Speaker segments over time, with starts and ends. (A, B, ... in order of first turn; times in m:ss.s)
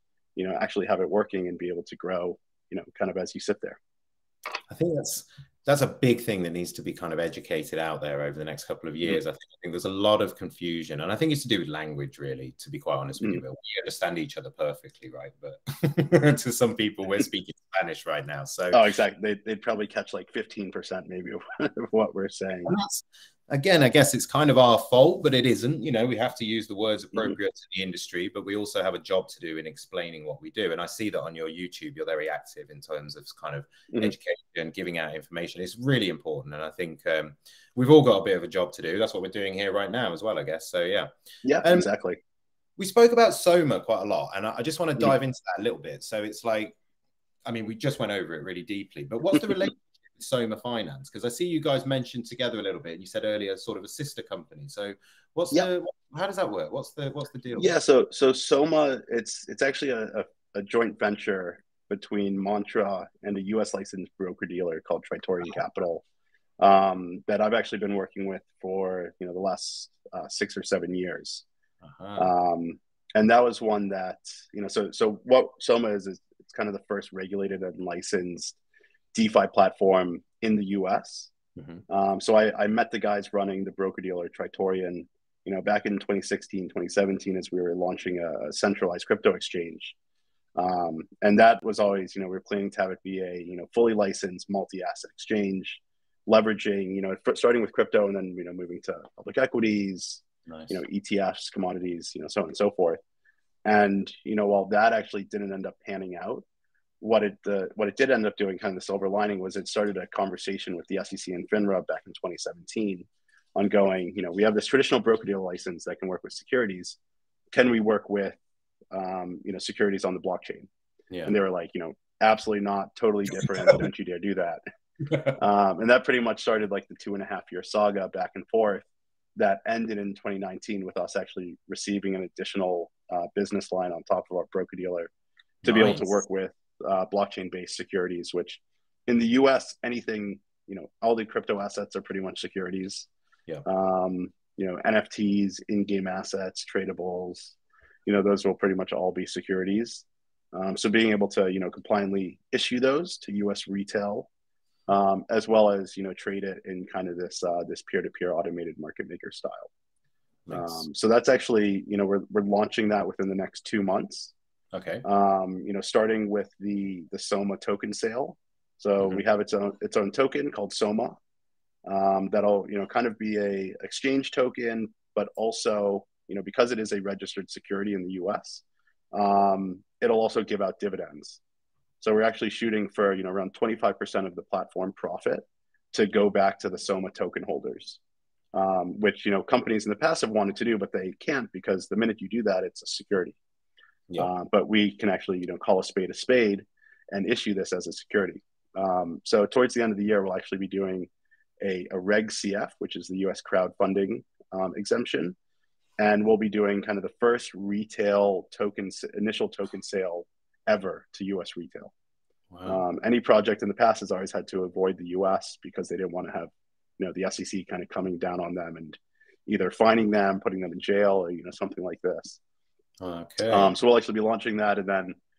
0:00.4-0:03.8 A
0:04.7-0:18.9 B
0:18.7-0:22.7 A
0:22.6-0:41.1 B
0:41.4-0:42.2 A
0:41.6-0:41.9 B
0:42.8-0:46.8 B
0:47.4-0:57.7 B
0:57.6-1:06.0 A
1:06.6-1:11.4 A
1:11.8-1:12.3 B
1:12.2-1:18.6 A
1:19.1-1:21.3 A
1:21.6-1:21.8 B
1:21.9-1:29.9 A
1:30.6-1:43.0 A
1:40.5-1:40.7 B
1:43.6-1:46.4 A
1:47.0-1:57.0 A
1:57.5-1:58.4 A
1:58.9-2:00.7 A
2:01.2-2:04.6 A
2:05.0-2:05.4 B
2:05.4-2:15.1 A
2:15.6-2:16.0 B
2:15.6-2:23.1 A
2:23.6-2:27.5 A
2:28.0-2:34.3 A
2:34.9-2:39.7 A
2:40.5-2:40.8 B
2:40.5-2:44.3 A
2:44.7-2:45.0 B
2:45.0-2:51.2 A
2:51.8-2:58.6 A
2:59.1-3:01.4 A
3:02.0-3:08.0 A
3:08.5-3:13.4 A
3:14.2-3:21.1 A
3:21.6-3:25.4 A
3:26.0-3:31.9 A
3:32.5-3:32.8 B
3:32.7-3:42.4 A
3:43.0-3:43.7 B
3:43.5-3:45.2 A